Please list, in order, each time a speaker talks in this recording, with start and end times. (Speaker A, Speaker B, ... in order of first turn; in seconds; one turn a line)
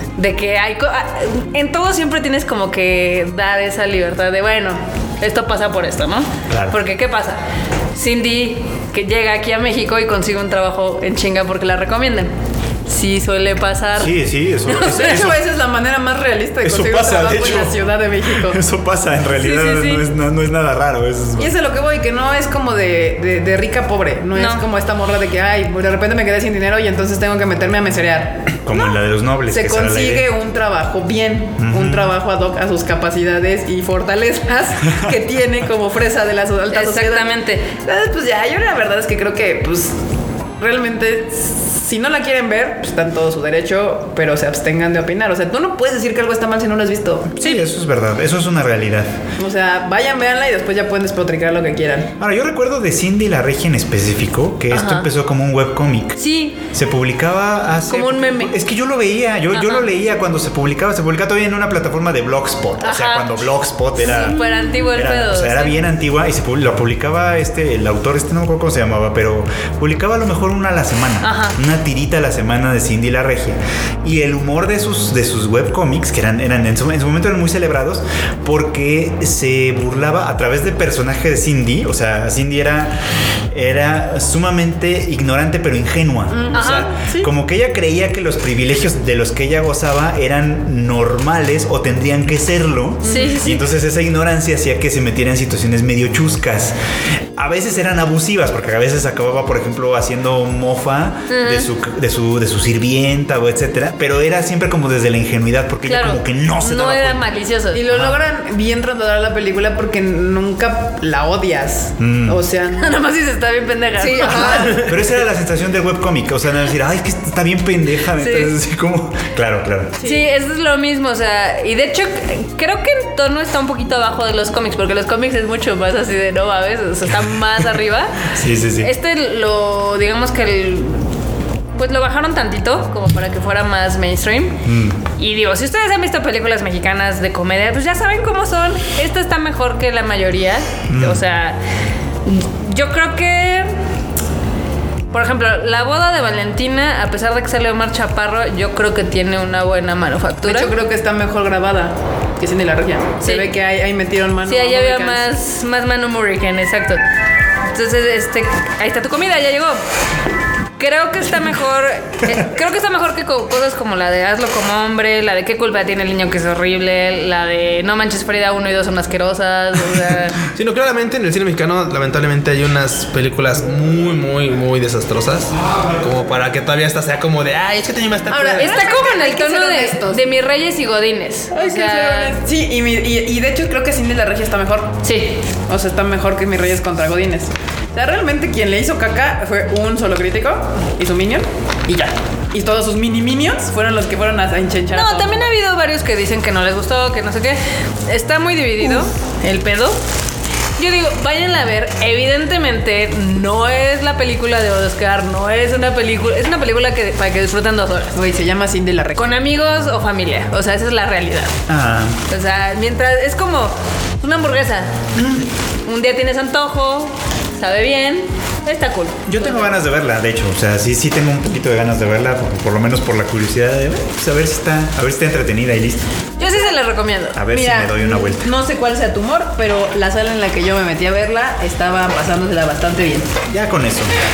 Speaker A: 0.2-7.4
Speaker B: 6.5-6.8
Speaker A: 8.0-12.3
Speaker A: 12.9-14.1
Speaker B: 14.0-15.4
Speaker C: 14.7-18.6
Speaker B: 16.6-17.8
Speaker B: 18.3-21.5
Speaker A: 19.3-20.1
Speaker C: 21.4-29.0
Speaker A: 24.4-24.6
Speaker B: 28.6-30.3
Speaker C: 29.5-37.3
Speaker B: 31.6-32.1
Speaker A: 36.7-37.7
Speaker C: 37.8-40.0
Speaker C: 40.6-47.3
Speaker B: 47.3-49.2
Speaker A: 47.4-47.6
Speaker C: 49.4-52.1
Speaker B: 52.2-56.2
Speaker A: 54.7-55.1
Speaker A: 56.2-56.6
Speaker B: 56.7-83.0
Speaker A: 57.9-58.5
Speaker A: 59.5-59.8
Speaker A: 62.8-63.4
Speaker A: 64.0-65.8
Speaker A: 71.2-71.6
Speaker B: 83.5-96.8
Speaker C: 86.3-87.3
Speaker A: 86.5-86.9
Speaker D: 86.6-86.9
Speaker C: 93.0-93.6
Speaker A: 93.1-93.6
Speaker B: 97.4-107.2
Speaker A: 101.3-101.7
Speaker A: 105.9-107.8
Speaker C: 107.7-113.1
Speaker B: 107.9-108.2
Speaker B: 112.0-112.4
Speaker A: 112.7-114.9
Speaker C: 114.0-114.9
Speaker B: 114.2-120.0
Speaker A: 118.2-118.5
Speaker C: 120.0-120.3
Speaker A: 120.0-131.1
Speaker B: 128.2-128.9
Speaker A: 131.8-134.6
Speaker B: 134.7-135.0
Speaker A: 135.2-141.6
Speaker B: 140.9-141.2
Speaker A: 142.2-143.7
Speaker A: 145.1-150.7
Speaker C: 150.4-155.2
Speaker A: 153.2-153.5
Speaker A: 154.5-157.0
Speaker A: 157.7-159.8
Speaker A: 160.8-170.4
Speaker D: 170.5-178.8
Speaker C: 178.3-180.2
Speaker A: 178.6-182.4
Speaker C: 181.5-185.0
Speaker A: 185.0-185.4
Speaker C: 185.7-195.4
Speaker A: 194.9-200.0
Speaker A: 200.8-208.2
Speaker C: 208.2-209.3
Speaker A: 209.2-211.6
Speaker B: 211.7-212.2
Speaker A: 212.3-215.0
Speaker B: 215.2-215.5
Speaker A: 215.9-219.8
Speaker B: 219.3-226.1
Speaker A: 226.4-227.4
Speaker B: 227.3-228.5
Speaker C: 227.5-233.4
Speaker B: 233.5-234.1